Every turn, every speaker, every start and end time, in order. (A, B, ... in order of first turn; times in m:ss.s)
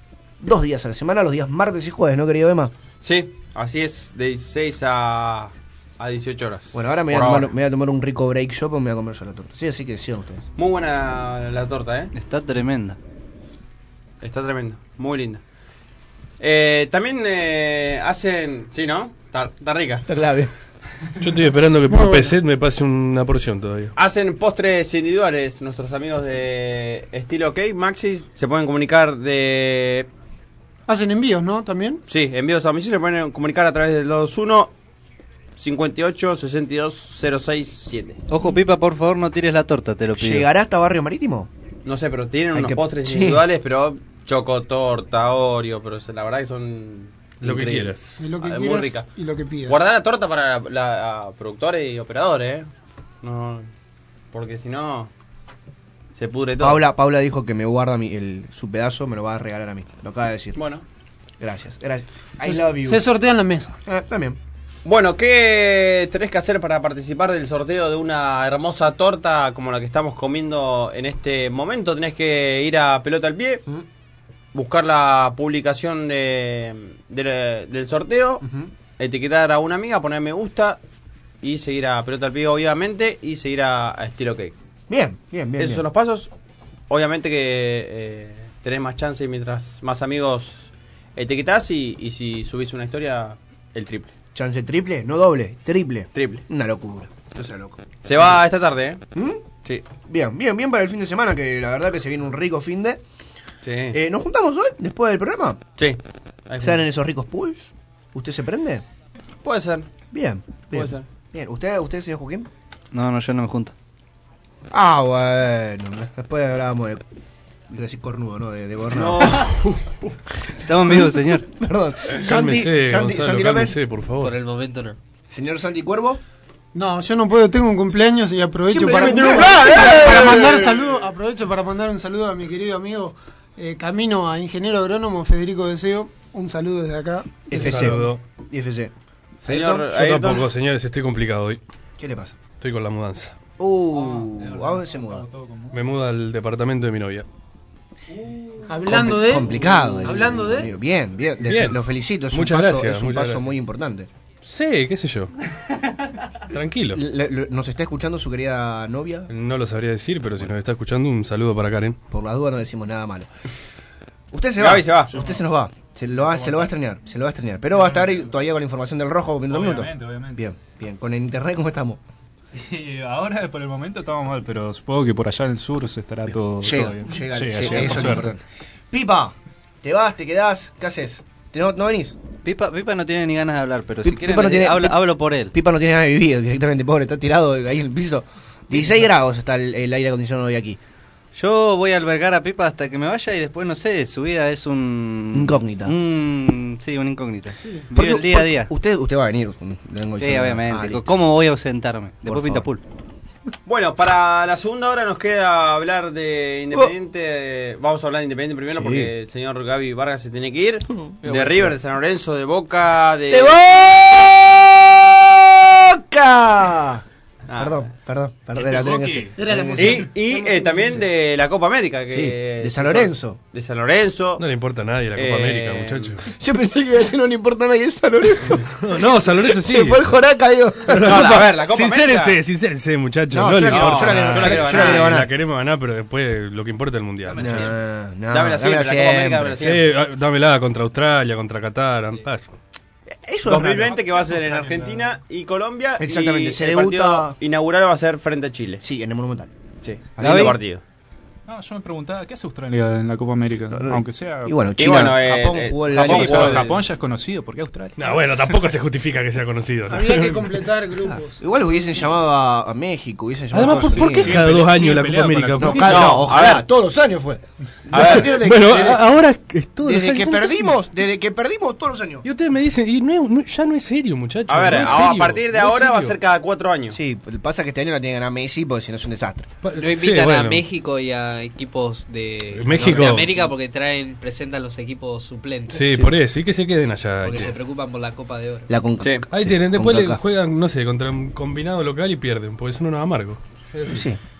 0:00.4-0:02.7 A
0:03.0-0:07.5 B
0:06.7-0:10.4 A
0:10.6-0:12.1 B
0:12.1-0:13.0 C
0:14.2-0:15.4 B
0:16.4-0:20.1 B
0:20.1-0:20.5 A
0:21.2-0:23.9 D
0:21.9-0:22.3 E
0:24.0-0:30.1 B
0:30.9-0:32.0 E
0:32.1-0:34.7 B
0:35.6-0:38.2 B
0:38.3-0:40.5 C
0:40.2-0:41.5 A
0:41.8-0:49.1 B
0:42.5-0:43.4 A
0:47.4-0:48.2 D
0:48.2-0:49.9 E
0:49.7-0:52.7 B
0:53.2-0:53.7 B
0:54.3-0:55.1 B
0:56.2-0:56.8 B
0:56.6-1:00.6 A
1:00.6-1:00.8 B
1:01.4-1:03.0 A
1:02.4-1:03.8 E
1:03.9-1:04.4 A
1:04.8-1:13.6 B
1:14.5-1:18.4 B
1:18.4-1:18.7 A
1:19.0-1:20.8 B
1:21.4-1:24.5 B
1:24.9-1:25.8 A
1:25.6-1:26.3 B
1:26.9-1:34.1 B
1:34.3-1:38.4 A
1:36.2-1:36.4 B
1:38.0-1:39.0 B
1:39.1-1:39.4 A
1:40.0-1:43.0 A
1:43.6-1:44.0 B
1:43.9-1:45.6 A
1:45.8-1:46.8 B
1:46.6-1:48.8 A
1:49.4-1:49.9 B
1:50.1-1:52.5 A
1:50.7-1:51.0 B
1:52.9-1:53.7 C
1:54.7-1:57.0 A
1:57.7-1:59.5 A
1:58.9-1:59.8 B
2:00.7-2:01.5 C
2:01.6-2:03.8 A
2:02.1-2:04.4 D
2:04.2-2:05.0 F
2:05.3-2:06.2 A
2:06.7-2:18.1 E
2:08.7-2:10.9 B
2:08.7-2:10.4 A
2:17.5-2:18.9 A
2:17.5-2:18.2 D
2:19.4-2:20.5 B
2:19.4-2:19.9 A
2:19.9-2:21.6 D
2:22.0-2:22.4 A
2:22.6-2:23.3 D
2:23.6-2:25.3 A
2:23.9-2:25.8 G
2:25.7-2:27.2 D
2:28.1-2:28.8 G
2:28.7-2:30.7 E
2:28.8-2:34.1 A
2:31.4-2:33.6 D
2:34.4-2:35.3 D
2:36.5-2:37.0 D
2:36.9-2:39.3 A
2:39.3-2:42.0 D
2:42.1-2:43.3 A
2:44.3-2:52.0 A
2:44.6-2:45.1 B
2:45.1-2:45.4 G
2:46.1-2:46.7 G
2:47.7-2:48.3 G
2:49.5-2:50.4 G
2:52.5-2:58.3 G
2:56.3-3:02.2 A
3:02.4-3:05.5 C
3:04.0-3:05.0 A
3:05.5-3:10.8 A
3:11.4-3:18.7 C
3:15.3-3:15.9 A
3:17.9-3:21.1 A
3:20.2-3:22.8 C
3:22.2-3:22.7 A
3:23.7-3:33.6 B
3:28.7-3:29.1 A
3:30.9-3:31.7 A
3:33.3-3:41.0 A
3:37.5-3:37.8 B
3:39.4-3:40.8 E
3:39.8-3:44.4 B
3:42.1-3:43.4 A
3:44.4-3:46.3 D
3:45.2-3:46.2 B
3:46.3-3:51.4 A
3:48.7-3:50.2 D
3:50.9-3:57.7 D
3:51.0-3:52.4 B
3:53.3-3:55.3 A
3:53.6-3:55.1 B
3:57.4-3:59.7 A
3:58.3-3:59.8 B
3:59.6-4:02.5 D
4:03.1-4:04.0 A
4:03.5-4:08.8 B
4:03.8-4:05.1 G
4:06.0-4:07.4 A
4:08.8-4:09.5 A
4:09.8-4:10.8 B
4:10.1-4:10.6 A
4:11.5-4:14.7 G
4:13.7-4:16.7 A
4:14.8-4:16.8 B
4:15.9-4:18.5 G
4:18.0-4:20.7 D
4:19.9-4:21.4 E
4:21.0-4:24.6 A
4:23.5-4:26.2 D
4:24.1-4:25.6 G
4:25.6-4:29.0 A
4:25.6-4:26.6 B
4:27.9-4:28.3 B
4:27.9-4:30.8 D
4:29.8-4:32.2 A
4:32.2-4:36.2 D
4:34.5-4:37.0 B
4:36.9-4:39.5 A
4:39.6-4:40.6 D
4:39.7-4:45.9 F
4:42.6-4:43.5 D
4:45.7-4:47.5 D
4:47.2-4:48.7 F
4:48.7-4:50.2 A
4:49.3-4:54.1 D
4:53.9-4:54.2 A